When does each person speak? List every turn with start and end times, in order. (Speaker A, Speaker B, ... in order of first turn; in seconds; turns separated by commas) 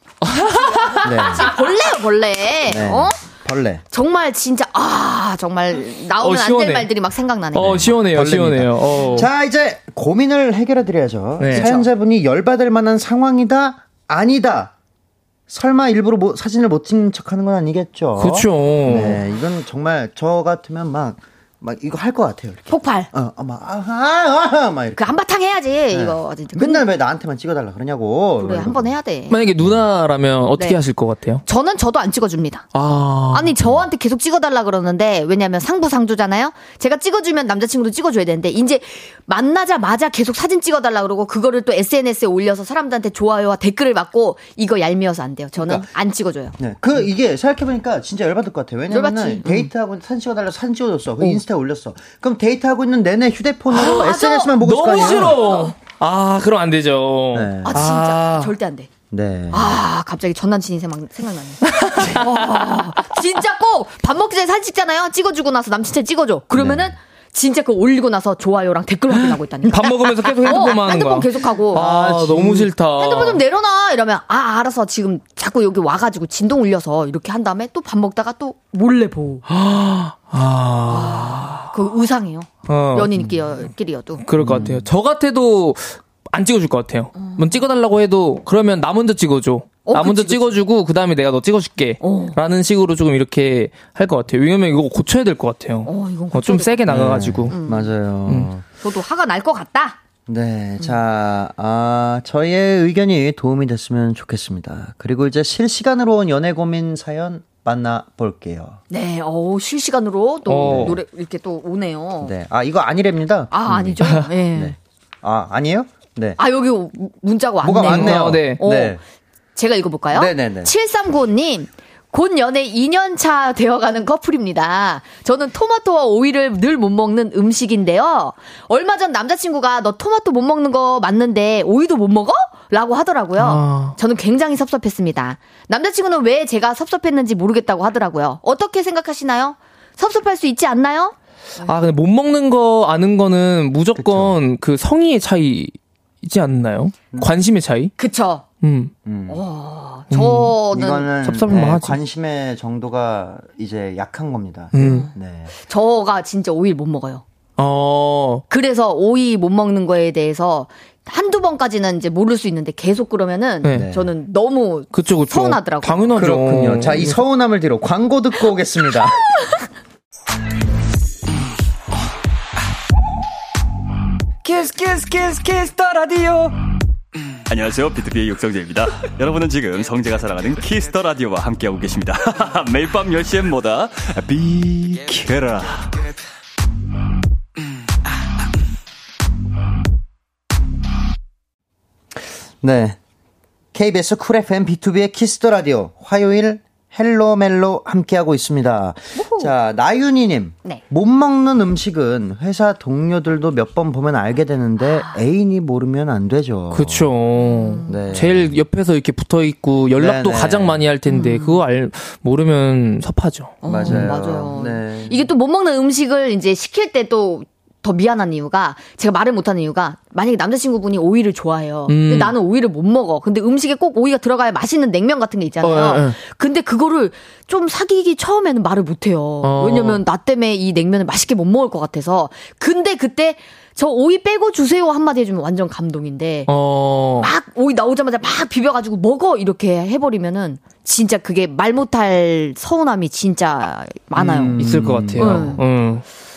Speaker A: 0.2-1.1, Speaker B: 0.4-3.2, Speaker C: 1.0-1.5, Speaker C: 2.7-3.8, Speaker B: 3.9-8.0, Speaker A: 6.2-6.9, Speaker A: 7.5-9.3, Speaker C: 7.6-14.7, Speaker A: 11.4-11.7, Speaker B: 11.5-11.9, Speaker C: 15.5-25.1, Speaker A: 18.2-19.2, Speaker B: 22.7-23.1, Speaker B: 24.9-26.8, Speaker C: 25.9-28.9, Speaker B: 28.4-29.4, Speaker A: 29.3-31.4, Speaker B: 31.4-32.6, Speaker A: 32.7-33.5, Speaker B: 33.3-46.6, Speaker C: 45.6-45.9, Speaker C: 46.6-55.4, Speaker B: 48.9-49.7, Speaker B: 53.7-55.7, Speaker A: 54.6-58.5, Speaker C: 57.3-57.8, Speaker B: 57.6-58.9, Speaker C: 59.1-59.8, Speaker B: 59.5-71.9, Speaker A: 61.7-62.8, Speaker C: 66.5-66.9, Speaker A: 69.1-73.4, Speaker C: 71.8-72.7, Speaker B: 72.9-79.5, Speaker A: 79.5-81.7, Speaker B: 80.9-84.2, Speaker A: 82.7-83.2, Speaker A: 84.2-97.5, Speaker C: 84.4-84.9, Speaker B: 87.2-87.6, Speaker B: 89.8-90.5, Speaker B: 92.0-92.4, Speaker B: 95.8-97.9, Speaker C: 96.9-98.6, Speaker B: 98.8-100.0, Speaker C: 100.3-108.8, Speaker B: 108.9-112.3, Speaker A: 110.5-111.0, Speaker C: 110.6-111.0, Speaker C: 112.2-116.4, Speaker B: 113.5-114.7, Speaker B: 116.4-119.0, Speaker C: 117.6-119.0, Speaker A: 117.8-118.6, Speaker B: 119.5-141.7, Speaker C: 120.1-120.7, Speaker A: 133.4-133.9, Speaker A: 141.6-147.9, Speaker C: 143.9-144.3, Speaker B: 148.0-148.4, Speaker A: 148.6-148.9, Speaker C: 149.0-149.4, Speaker B: 149.3-151.1, Speaker A: 150.1-150.6, Speaker C: 150.7-155.5, Speaker A: 151.2-152.0, Speaker A: 154.7-155.1, Speaker B: 154.8-157.2, Speaker A: 157.6-158.4, Speaker B: 158.5-166.1, Speaker C: 163.7-164.1, Speaker A: 164.9-167.2, Speaker C: 166.1-169.3, Speaker D: 174.4-176.5, Speaker E: 177.5-185.9, Speaker C: 192.6-193.0, Speaker C: 193.7-207.1, Speaker B: 199.1-199.5, Speaker B: 204.8-205.2, Speaker A: 206.7-214.1, Speaker B: 207.4-208.0, Speaker C: 207.9-208.6, Speaker C: 209.9-210.8, Speaker B: 211.1-211.6, Speaker B: 213.6-236.5, Speaker C: 213.6-215.2, Speaker A: 221.9-222.3, Speaker A: 225.6-226.2, Speaker A: 229.4-230.0, Speaker A: 236.5-237.3, Speaker B: 237.2-244.6, Speaker C: 244.1-245.6, Speaker A: 244.6-246.0, Speaker B: 245.2-245.6